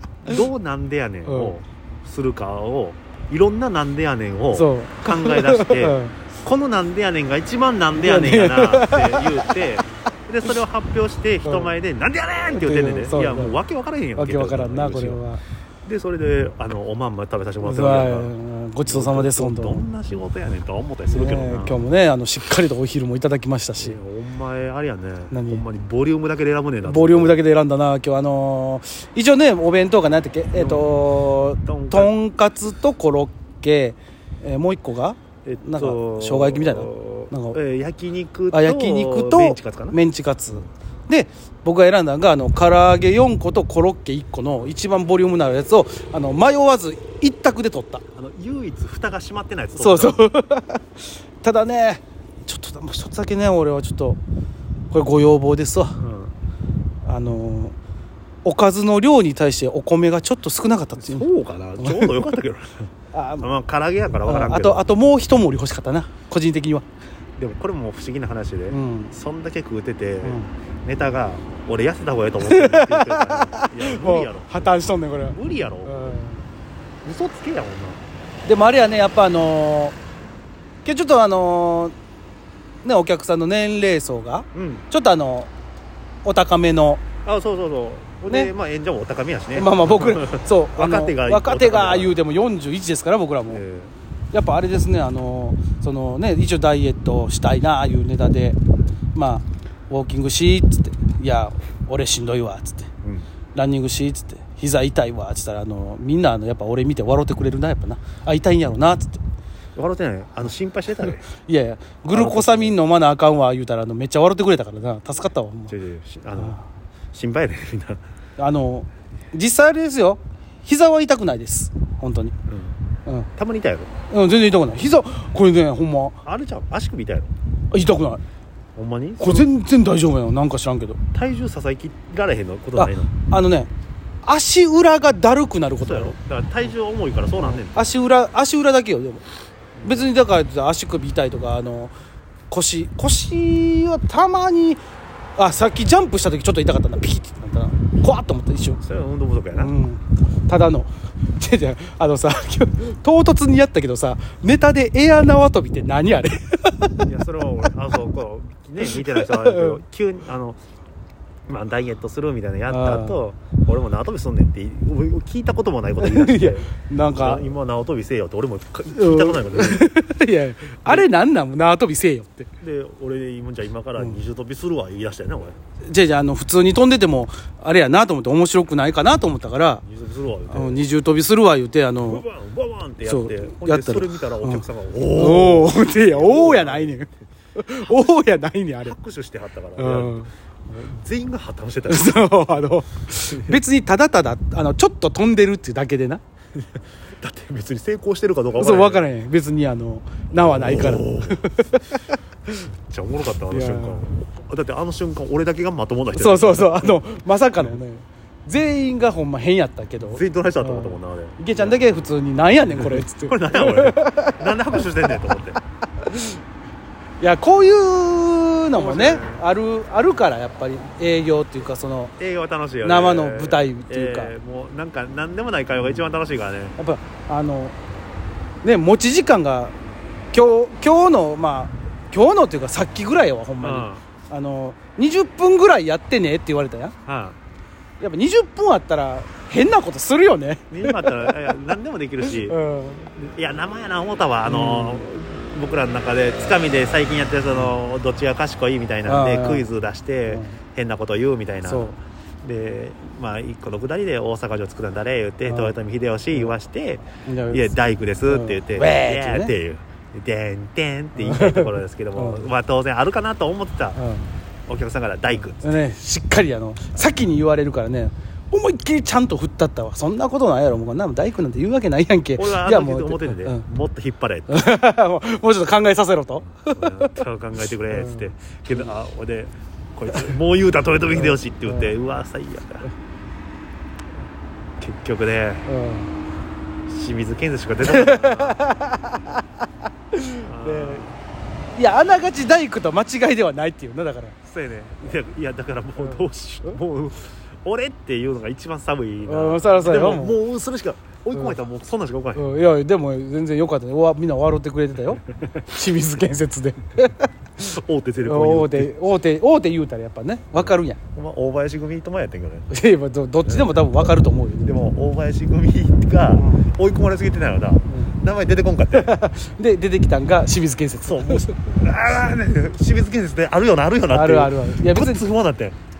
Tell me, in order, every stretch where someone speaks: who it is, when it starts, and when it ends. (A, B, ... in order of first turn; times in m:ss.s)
0:00.2-0:15.2 A
0:01.2-0:01.5 B
0:04.5-0:06.2 B
0:07.9-0:09.5 B
0:11.4-0:11.7 B
0:12.5-0:13.6 B
0:14.2-0:15.4 B
0:15.8-0:18.3 A
0:17.6-0:19.8 B
0:18.9-0:21.8 A
0:21.1-0:24.0 B
0:23.8-0:27.4 A
0:25.3-0:25.6 B
0:26.8-0:37.6 B
0:30.5-0:31.0 A
0:31.6-0:32.1 A
0:35.4-0:40.0 A
0:38.5-0:48.0 B
0:48.1-0:50.2 A
0:49.8-0:54.2 B
0:54.9-0:56.0 B
0:56.0-0:56.4 A
0:57.0-0:57.8 B
0:58.4-1:01.2 B
1:01.0-1:02.8 A
1:01.8-1:02.3 B
1:03.1-1:03.5 B
1:03.4-1:04.8 A
1:04.2-1:06.9 B
1:07.4-1:16.2 A
1:08.7-1:09.1 B
1:10.2-1:10.5 B
1:12.4-1:16.5 B
1:17.0-1:18.0 A
1:18.4-1:20.0 B
1:20.8-1:21.9 B
1:22.8-1:25.5 B
1:24.5-1:24.9 A
1:26.2-1:27.0 B
1:27.2-1:32.2 A
1:29.6-1:33.6 B
1:33.5-1:33.9 A
1:34.3-1:38.6 B
1:39.1-1:42.9 B
1:43.6-1:49.2 B
1:49.8-1:51.2 A
1:51.5-1:55.7 B
1:52.1-1:52.8 A
1:55.7-1:56.6 A
1:56.4-1:56.6 B
1:57.1-1:58.0 A
1:58.4-2:02.4 B
2:02.5-2:02.8 A
2:03.4-2:03.9 A
2:04.1-2:06.2 B
2:06.2-2:07.3 A
2:07.7-2:08.2 B
2:08.8-2:09.5 A
2:09.2-2:11.0 B
2:11.1-2:13.1 A
2:12.8-2:13.7 B
2:14.2-2:16.2 B
2:15.8-2:17.9 A
2:17.4-2:19.2 B
2:19.8-2:20.1 A
2:19.8-2:21.9 B
2:22.5-2:24.8 B
2:25.4-2:28.8 B
2:28.8-2:29.7 A
2:29.6-2:37.1 B
2:37.1-2:40.6 A
2:38.8-2:39.8 B
2:41.5-2:49.9 A
2:42.7-2:43.2 B
2:46.0-2:47.4 B
2:48.9-2:52.5 B
2:52.6-2:55.6 A
2:55.9-2:59.8 B
2:59.8-3:00.8 A
3:00.5-3:02.2 B
3:02.0-3:07.0 A
3:03.0-3:09.0 B
3:08.8-3:12.3 A
3:09.8-3:10.3 B
3:11.9-3:16.2 B
3:13.3-3:13.6 A
3:16.6-3:19.1 A
3:18.6-3:22.1 B
3:20.3-3:21.5 A
3:22.7-3:27.0 A
3:23.5-3:24.0 B
3:26.1-3:34.8 B
3:30.0-3:32.1 A
3:32.7-3:35.6 A
3:36.0-3:36.4 B
3:37.2-3:42.1 B
3:38.7-3:39.5 A
3:42.2-3:46.8 A
3:42.8-3:44.3 B
3:46.8-3:47.8 B
3:48.6-3:49.8 B
3:50.3-3:56.9 B
3:53.6-3:54.0 A
3:57.1-3:57.4 A
3:58.0-4:01.4 B
4:00.7-4:02.6 A
4:02.2-4:03.1 B
4:03.1-4:24.0 A
4:04.4-4:05.1 B
4:09.1-4:09.6 B
4:10.3-4:10.6 B
4:11.6-4:12.0 B
4:15.5-4:15.7 B
4:17.2-4:19.5 B
4:21.2-4:22.5 B
4:24.0-4:24.3 B
4:24.7-4:25.6 A
4:25.3-4:33.6 B
4:32.4-4:34.6 A
4:34.5-4:37.2 B
4:36.4-4:42.9 A
4:37.9-4:38.2 B
4:41.1-4:41.9 B
4:44.8-4:45.7 A
4:45.7-4:46.1 B
4:46.9-4:48.7 A
4:47.8-4:49.4 B
4:50.1-4:51.0 B
4:50.4-4:51.2 A
4:51.8-4:54.4 B
4:54.4-5:02.5 A
4:56.0-4:56.8 B
4:59.3-5:00.4 B
5:02.4-5:07.3 B
5:07.6-5:08.9 A
5:08.2-5:11.0 B
5:10.6-5:12.7 A
5:12.7-5:14.8 B
5:13.4-5:13.8 A
5:14.6-5:19.1 A
5:16.4-5:16.7 B
5:18.9-5:21.6 B
5:21.0-5:25.8 A
5:24.1-5:25.2 B